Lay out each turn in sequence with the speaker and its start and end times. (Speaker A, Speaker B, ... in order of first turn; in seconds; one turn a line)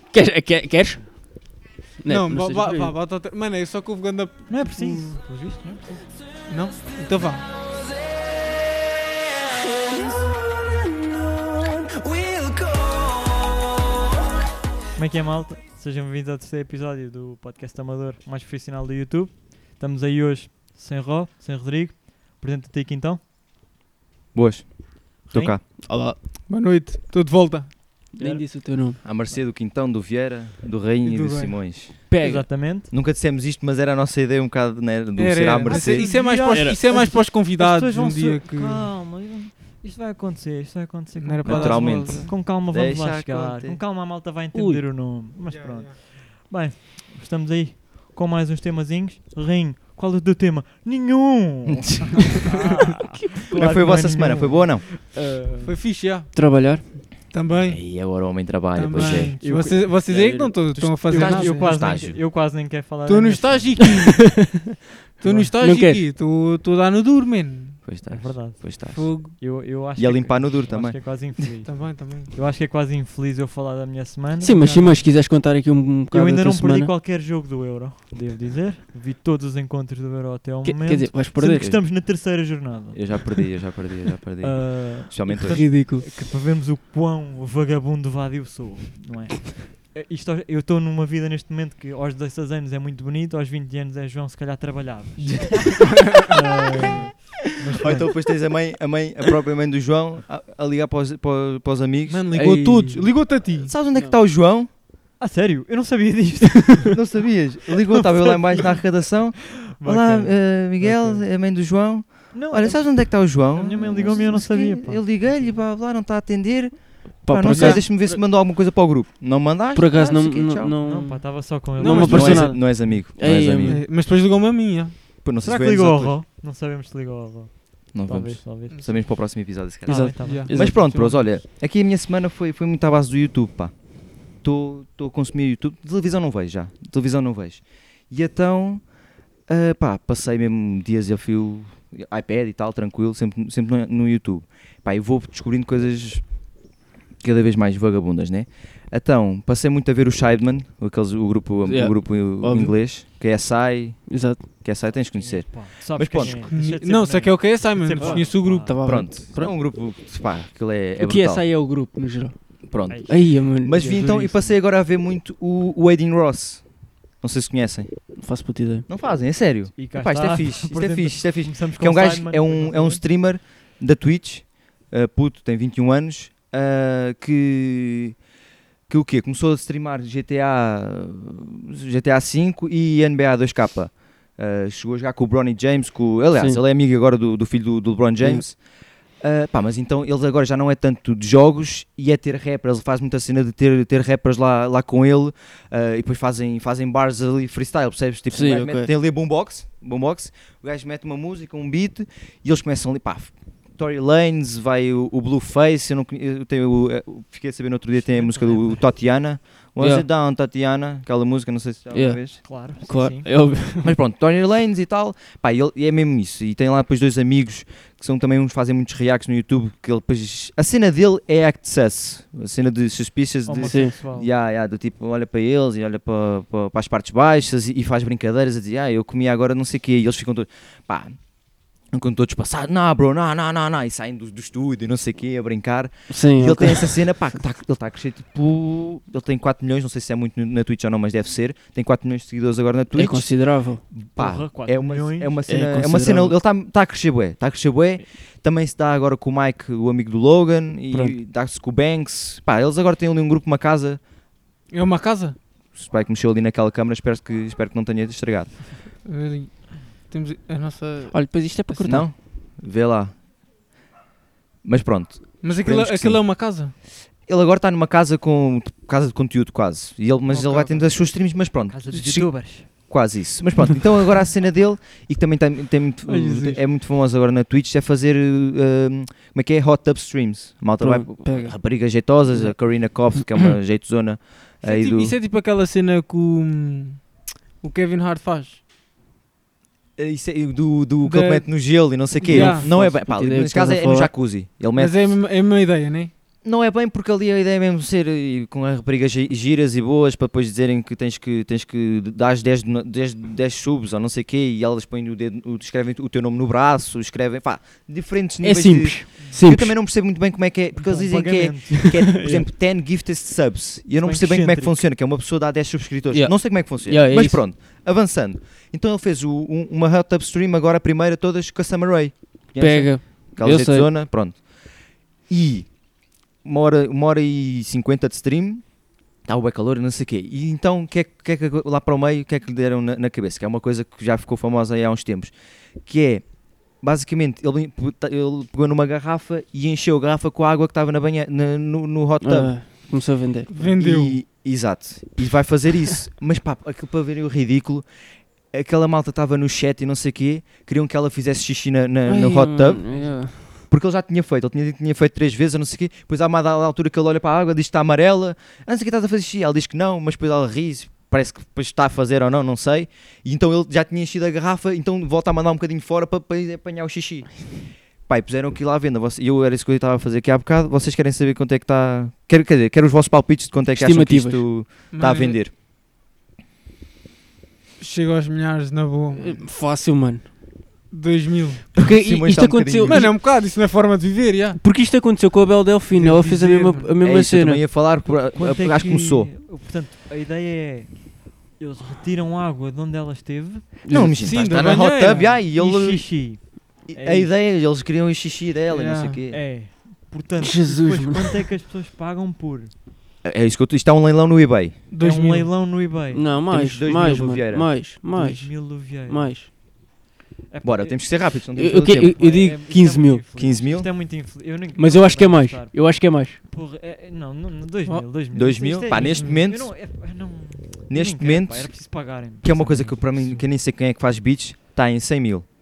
Speaker A: 0.1-3.0
Speaker B: 2.1-5.1
Speaker C: 4.5-6.1
Speaker B: 6.5-7.5
Speaker C: 14.9-23.2
Speaker D: 24.3-25.6
Speaker A: 25.6-26.2
Speaker B: 26.5-27.7
Speaker A: 28.1-29.0
Speaker C: 28.2-28.4
Speaker D: 29.0-32.1
Speaker B: 31.0-31.6
Speaker A: 32.1-32.5
Speaker C: 32.2-32.9
Speaker D: 32.9-36.2
Speaker B: 35.2-38.9
Speaker C: 35.6-55.8
Speaker A: 36.5-36.8
Speaker B: 41.2-42.4
Speaker D: 41.5-43.8
Speaker A: 44.5-44.8
Speaker B: 45.5-45.9
Speaker D: 51.7-52.5
Speaker D: 53.5-54.9
Speaker B: 55.6-56.8
Speaker A: 56.3-57.1
Speaker B: 57.3-58.0
Speaker D: 57.7-59.4
Speaker B: 58.7-61.8
Speaker C: 59.4-60.1
Speaker A: 60.0-60.6
Speaker D: 60.7-62.2
Speaker C: 61.1-64.1
Speaker B: 63.1-64.4
Speaker A: 64.0-64.5
Speaker B: 65.2-67.8
Speaker C: 65.2-65.5
Speaker A: 65.6-66.0
Speaker D: 67.8-69.1
Speaker C: 68.1-74.7
Speaker B: 68.9-69.3
Speaker D: 70.0-71.5
Speaker B: 71.7-72.3
Speaker A: 74.4-76.9
Speaker B: 74.5-75.1
Speaker C: 76.1-83.5
Speaker A: 80.6-81.7
Speaker D: 81.6-81.9
Speaker D: 82.9-85.7
Speaker C: 84.4-98.2
Speaker A: 85.4-86.1
Speaker B: 96.0-96.3
Speaker D: 97.8-102.3
Speaker B: 102.1-103.7
Speaker A: 102.3-103.2
Speaker D: 103.5-104.7
Speaker C: 105.2-107.0
Speaker D: 106.9-120.8
Speaker C: 107.7-111.3
Speaker C: 112.3-115.6
Speaker A: 117.3-118.2
Speaker B: 117.5-117.8
Speaker A: 119.8-123.8
Speaker C: 120.8-122.5
Speaker B: 121.8-122.6
Speaker D: 122.0-123.8
Speaker B: 123.6-125.0
Speaker D: 125.2-126.2
Speaker C: 125.4-129.1
Speaker D: 127.9-133.8
Speaker B: 128.7-129.0
Speaker C: 129.8-130.5
Speaker A: 129.9-130.8
Speaker B: 130.2-131.2
Speaker D: 134.3-138.9
Speaker D: 139.5-146.4
Speaker D: 147.2-156.5
Speaker A: 151.7-152.7
Speaker A: 154.1-154.4
Speaker C: 155.1-158.7
Speaker B: 156.5-158.8
Speaker A: 158.0-159.6
Speaker D: 158.8-161.4
Speaker A: 161.0-162.5
Speaker D: 162.7-166.7
Speaker C: 162.9-164.5
Speaker A: 163.1-164.1
Speaker D: 167.2-167.9
Speaker A: 168.2-168.9
Speaker D: 168.9-178.2
Speaker C: 169.8-173.0
Speaker D: 178.9-188.6
Speaker A: 186.4-186.6
Speaker D: 189.2-212.4
Speaker A: 198.3-198.9
Speaker C: 207.9-208.9
Speaker A: 209.8-210.1
Speaker A: 211.9-214.0
Speaker C: 212.4-213.3
Speaker D: 213.8-231.2
Speaker C: 223.5-224.3
Speaker A: 223.7-223.9
Speaker D: 231.9-243.3
Speaker A: 236.1-237.0
Speaker A: 242.9-243.8
Speaker D: 243.9-254.0
Speaker C: 244.2-245.4
Speaker A: 245.5-246.4
Speaker B: 254.7-255.4
Speaker D: 255.7-258.6
Speaker B: 259.1-262.0
Speaker A: 261.1-262.1
Speaker D: 261.9-263.1
Speaker D: 264.6-266.2
Speaker B: 265.4-266.7
Speaker D: 267.3-285.1
Speaker B: 270.3-270.7
Speaker C: 270.4-271.1
Speaker C: 271.7-272.7
Speaker B: 276.1-276.6
Speaker A: 280.8-282.5
Speaker B: 284.6-288.6
Speaker D: 290.0-295.2
Speaker B: 291.0-291.5
Speaker A: 292.2-294.1
Speaker B: 292.3-292.7
Speaker B: 294.8-296.1
Speaker D: 296.4-324.5
Speaker A: 308.4-309.8
Speaker C: 310.8-312.5
Speaker C: 314.0-314.8
Speaker A: 316.1-317.4
Speaker A: 322.6-323.9
Speaker D: 325.2-325.7
Speaker D: 326.4-328.6
Speaker D: 329.2-335.3
Speaker D: 335.9-336.2
Speaker D: 336.8-342.6
Speaker A: 342.2-343.5
Speaker B: 343.5-344.2
Speaker D: 343.6-347.9
Speaker D: 348.5-375.5
Speaker A: 352.1-353.6
Speaker C: 352.9-353.2
Speaker A: 373.8-374.5
Speaker B: 374.9-375.4
Speaker B: 377.8-379.5
Speaker A: 379.1-380.3
Speaker B: 380.9-381.7
Speaker D: 381.8-383.1
Speaker A: 381.8-383.1
Speaker B: 382.9-384.6
Speaker A: 384.6-387.6
Speaker C: 386.0-386.8
Speaker B: 386.1-386.9
Speaker D: 387.0-389.3
Speaker C: 388.1-393.7
Speaker A: 393.9-394.3
Speaker D: 393.9-399.4
Speaker B: 394.2-395.4
Speaker C: 395.5-397.3
Speaker B: 398.7-399.2
Speaker C: 399.3-402.7
Speaker A: 400.4-401.4
Speaker D: 403.2-404.8
Speaker B: 404.9-405.5
Speaker C: 405.0-406.2
Speaker A: 406.1-409.5
Speaker D: 406.5-407.7
Speaker C: 408.1-409.5
Speaker C: 410.5-411.1
Speaker D: 410.6-412.2
Speaker A: 411.6-413.2
Speaker C: 412.1-423.5
Speaker D: 413.4-413.9
Speaker A: 414.8-416.4
Speaker D: 418.3-419.8
Speaker D: 420.9-425.4